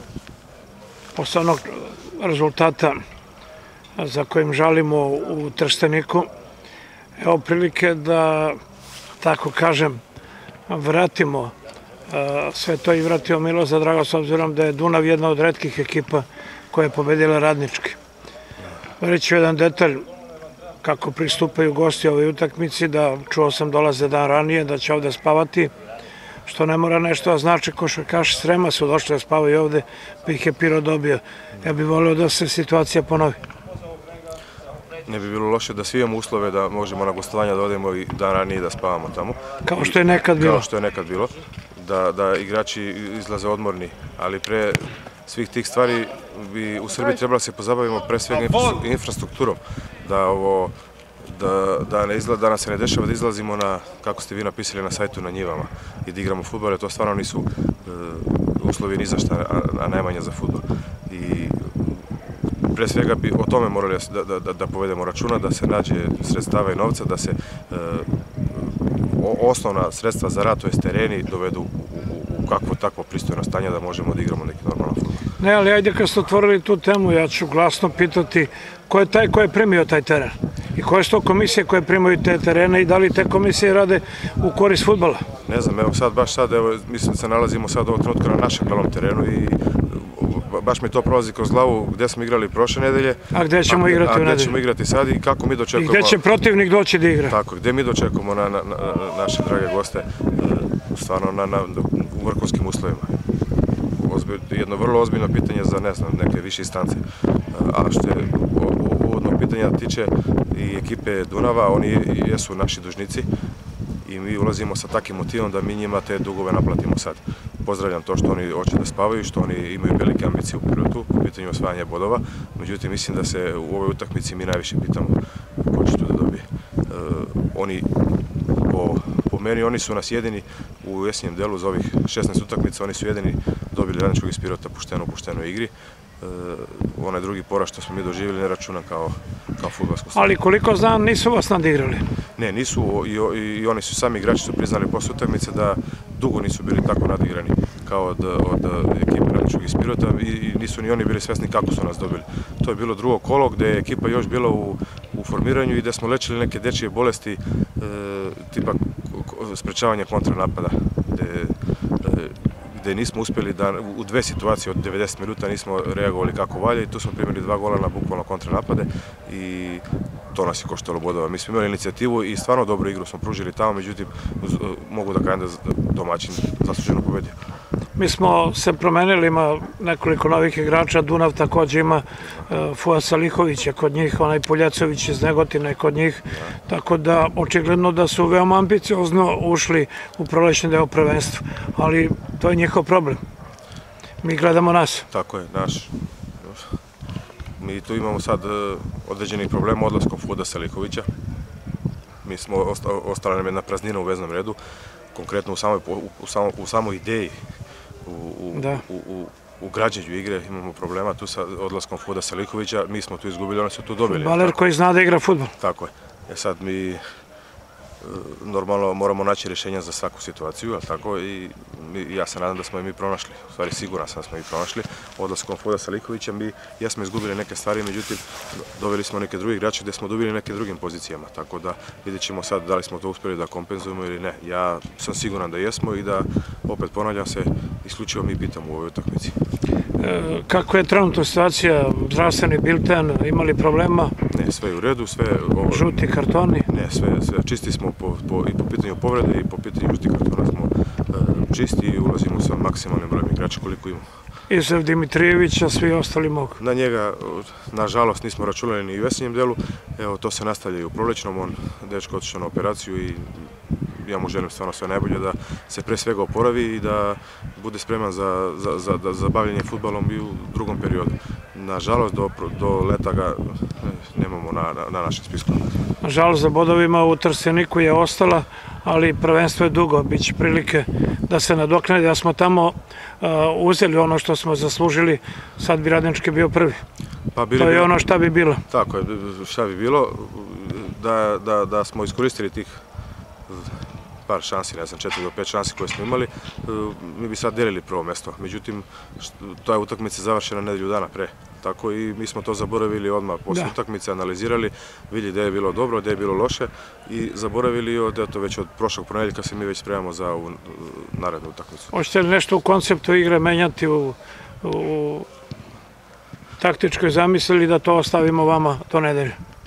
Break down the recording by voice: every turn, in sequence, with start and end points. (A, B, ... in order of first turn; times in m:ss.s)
0:01.1-0:03.0 A
0:04.0-0:06.3 A
0:07.2-0:08.6 A
0:09.2-0:10.0 A
0:10.7-0:11.5 A
0:12.1-0:18.0 A
0:19.0-0:20.0 A
0:20.8-0:25.7 A
0:26.4-0:33.4 A
0:35.0-1:15.3 B
0:39.6-0:40.6 A
1:15.4-1:25.2 A
1:25.4-1:36.2 B
1:33.3-1:34.6 A
1:35.7-1:37.4 A
1:37.3-1:43.2 B
1:43.9-1:53.3 B
1:54.0-2:20.3 B
2:20.1-2:22.0 A
2:22.4-2:57.4 B
2:58.0-3:13.2 A
3:06.3-3:06.6 B
3:14.2-3:15.1 A
3:15.1-3:16.7 B
3:17.6-3:21.1 B
3:22.2-3:24.6 B
3:25.1-3:27.4 B
3:28.0-3:34.6 B
3:28.5-3:28.8 A
3:34.1-3:35.5 A
3:35.6-3:37.0 B
3:38.0-3:59.4 B
4:00.0-4:04.1 A
4:04.3-4:06.1 B
4:05.7-4:06.7 A
4:06.6-4:14.1 B
4:14.5-4:16.6 A
4:16.6-4:35.7 B
4:36.0-4:46.8 A
4:47.3-4:48.0 B
4:47.6-4:48.6 A
4:48.7-4:52.8 B
4:53.5-5:11.9 B
5:11.9-5:15.3 A
5:16.6-5:19.4 A